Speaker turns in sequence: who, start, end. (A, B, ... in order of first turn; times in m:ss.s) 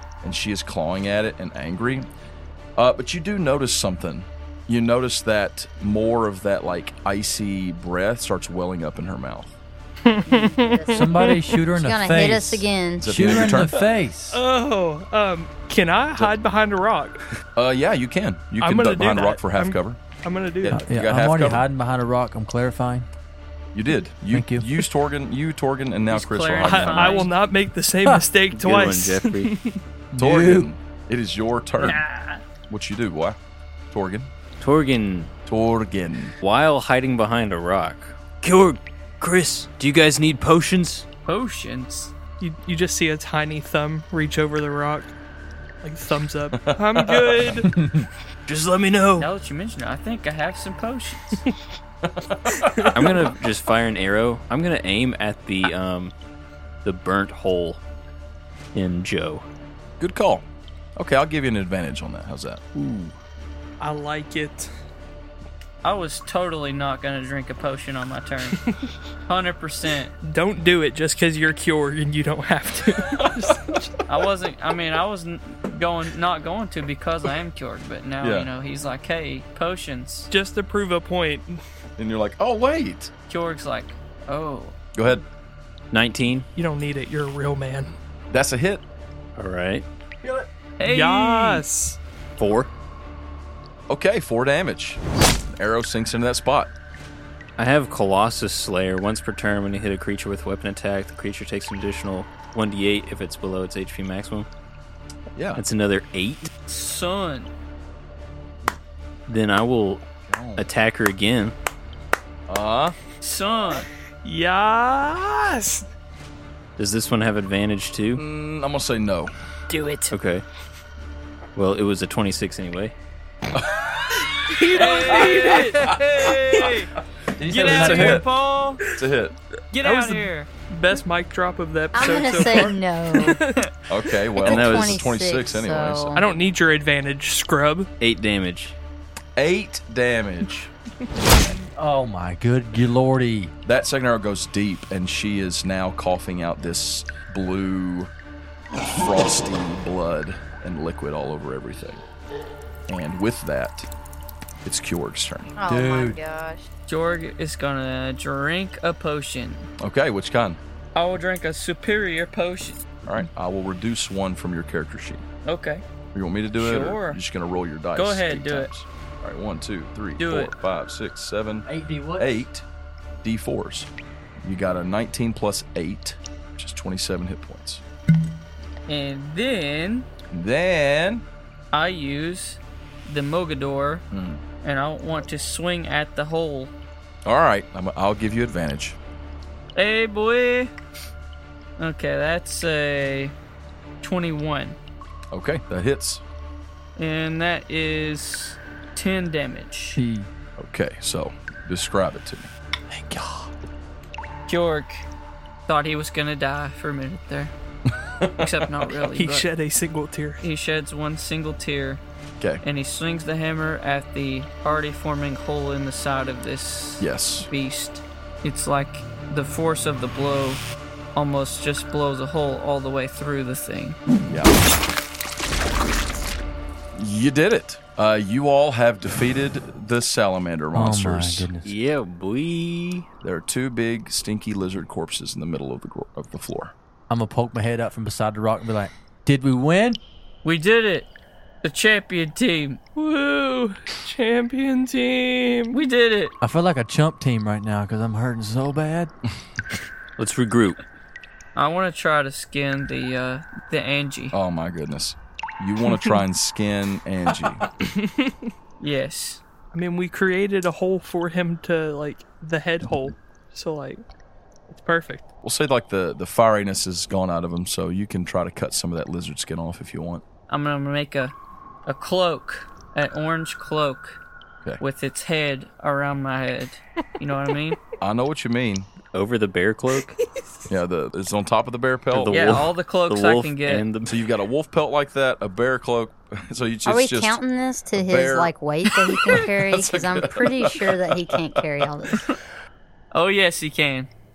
0:00.2-0:02.1 A
0:02.8-0:09.5 A
0:10.0-0:11.6 B
0:10.2-0:13.6 C
0:10.9-0:14.4 D
0:13.0-0:13.8 A
0:14.3-0:17.2 B
0:17.6-0:20.0 A
0:18.6-0:20.9 B
0:20.6-0:21.7 A
0:20.7-0:23.1 D
0:23.7-0:27.3 A
0:24.3-0:24.7 D
0:26.1-0:27.3 E
0:26.6-0:29.8 B
0:28.5-0:29.5 F
0:30.1-0:30.7 D
0:30.2-0:32.0 A
0:31.8-0:32.4 E
0:32.7-0:33.4 A
0:33.9-0:34.3 A
0:34.6-0:35.3 F
0:35.5-0:36.4 A
0:36.4-0:41.1 F
0:41.3-0:42.1 E
0:42.4-0:45.1 B
0:45.8-0:47.7 B
0:46.5-0:47.5 A
0:47.7-0:48.1 D
0:48.5-0:49.3 B
0:49.2-0:51.4 E
0:52.0-0:53.2 A
0:52.6-0:52.9 B
0:52.9-0:56.1 F
0:56.8-0:57.8 F
0:58.8-0:59.4 F
1:00.0-1:00.4 A
1:01.0-1:02.6 A
1:02.8-1:03.1 F
1:03.8-1:04.7 B
1:05.8-1:08.6 E
1:09.2-1:10.1 E
1:10.2-1:13.9 B
1:13.2-1:13.6 A
1:14.1-1:20.3 E
1:18.2-1:18.5 A
1:20.3-1:21.6 B
1:22.0-1:23.1 A
1:23.3-1:24.8 E
1:25.0-1:25.2 A
1:25.9-1:26.5 F
1:26.6-1:27.9 B
1:28.3-1:28.8 A
1:29.4-1:29.8 F
1:30.8-1:31.6 E
1:30.8-1:32.0 B
1:32.4-1:32.7 F
1:33.9-1:36.7 A
1:37.6-1:44.5 F
1:45.4-1:45.6 A
1:45.6-1:46.5 F
1:46.7-1:47.5 E
1:49.3-1:50.1 F
1:50.6-1:51.5 F
1:52.5-1:53.0 A
1:53.2-1:53.9 E
1:54.2-1:55.9 B
1:56.8-1:58.2 F
1:58.2-1:59.3 A
1:59.7-2:00.1 B
2:00.1-2:00.4 F
2:01.6-2:02.9 F
2:03.5-2:03.9 A
2:04.5-2:06.0 B
2:04.7-2:06.9 E
2:07.4-2:08.2 D
2:07.5-2:08.8 E
2:07.6-2:08.2 A
2:08.9-2:09.4 A
2:09.7-2:10.5 E
2:09.8-2:13.7 B
2:11.9-2:13.4 C
2:13.9-2:16.2 A
2:14.4-2:15.1 F
2:14.5-2:16.4 C
2:16.2-2:17.9 B
2:18.0-2:18.8 F
2:19.4-2:21.3 A
2:21.7-2:23.5 D
2:23.7-2:28.1 A
2:28.8-2:32.0 A
2:32.9-2:33.9 A
2:34.6-2:35.5 A
2:35.6-2:36.7 C
2:35.7-2:36.2 D
2:36.9-2:39.7 E
2:39.8-2:40.6 A
2:41.0-2:42.9 E
2:43.0-2:45.2 A
2:45.4-2:45.8 E
2:46.1-2:51.7 A
2:46.6-2:47.2 E
2:48.0-2:48.7 E
2:50.2-2:50.5 E
2:51.7-2:52.3 D
2:52.2-2:52.6 A
2:53.2-2:53.9 A
2:54.4-2:57.8 A
2:58.9-3:00.1 E
3:00.3-3:01.2 A
3:01.7-3:04.0 E
3:04.1-3:04.4 A
3:04.6-3:06.7 E
3:07.2-3:09.0 A
3:09.8-3:10.7 E
3:11.8-3:13.3 E
3:14.0-3:14.8 E
3:15.3-3:16.2 A
3:17.0-3:20.0 E
3:20.0-3:20.3 D
3:20.6-3:22.5 A
3:22.9-3:23.5 D
3:24.5-3:25.1 E
3:25.7-3:27.5 E
3:28.1-3:28.5 A
3:28.4-3:29.5 E
3:29.1-3:30.4 B
3:30.4-3:32.0 E
3:32.6-3:40.6 E
3:37.0-3:37.5 A
3:41.2-3:44.0 E
3:44.3-3:44.6 A
3:46.9-3:51.5 A
3:50.8-3:51.7 D
3:51.6-3:53.1 F
3:53.2-3:56.7 A
3:57.1-4:00.0 D
4:00.4-4:01.1 E
4:01.6-4:02.8 E
4:03.0-4:05.8 B
4:05.7-4:06.4 E
4:06.4-4:09.1 D
4:10.2-4:10.8 F
4:11.6-4:14.4 E
4:14.3-4:17.6 A
4:17.8-4:18.5 B
4:18.8-4:19.4 E
4:19.7-4:24.0 B
4:24.7-4:25.3 B
4:25.4-4:30.2 A
4:30.5-4:31.4 E
4:31.9-4:34.2 E
4:34.8-4:37.8 E
4:38.0-4:38.9 A
4:39.1-4:40.2 F
4:40.7-4:42.7 A
4:42.1-4:44.2 F
4:42.3-4:43.8 E
4:44.1-4:47.4 A
4:46.9-4:52.3 C
4:47.9-4:48.5 A
4:49.3-4:51.6 A
4:53.1-4:54.1 E